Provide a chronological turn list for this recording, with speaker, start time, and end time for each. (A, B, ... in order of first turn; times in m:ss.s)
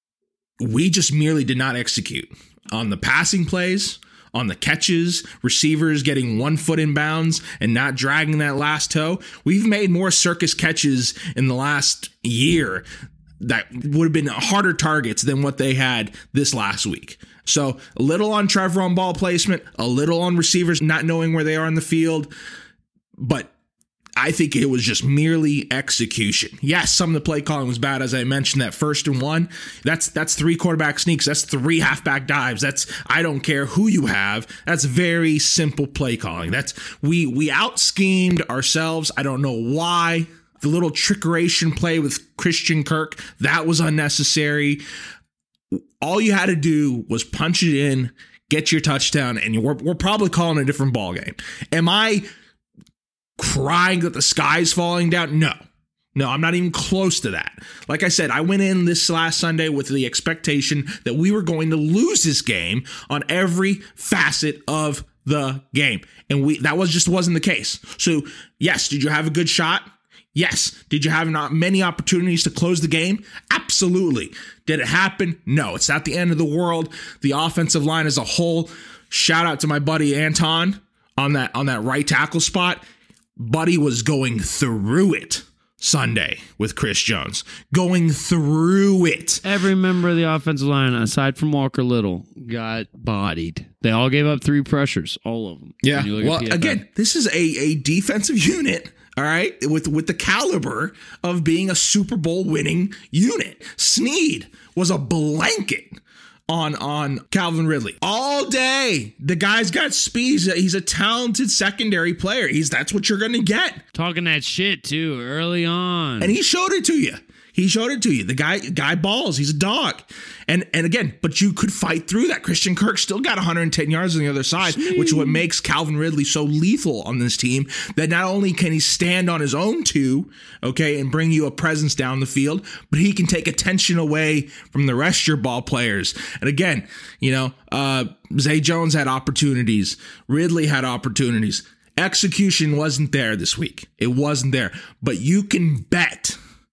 0:00.6-0:12.8 A
0:13.4-0:22.3 A
0:23.2-0:23.5 A
0:24.2-0:44.8 A
0:46.0-0:52.2 A
0:53.4-0:55.6 A
0:56.1-1:22.8 A
1:23.4-1:29.4 A
1:29.4-1:36.8 B
1:35.8-1:46.0 A
1:46.5-1:53.8 A
1:53.9-1:56.3 B
1:56.2-2:26.4 A
2:04.6-2:05.4 B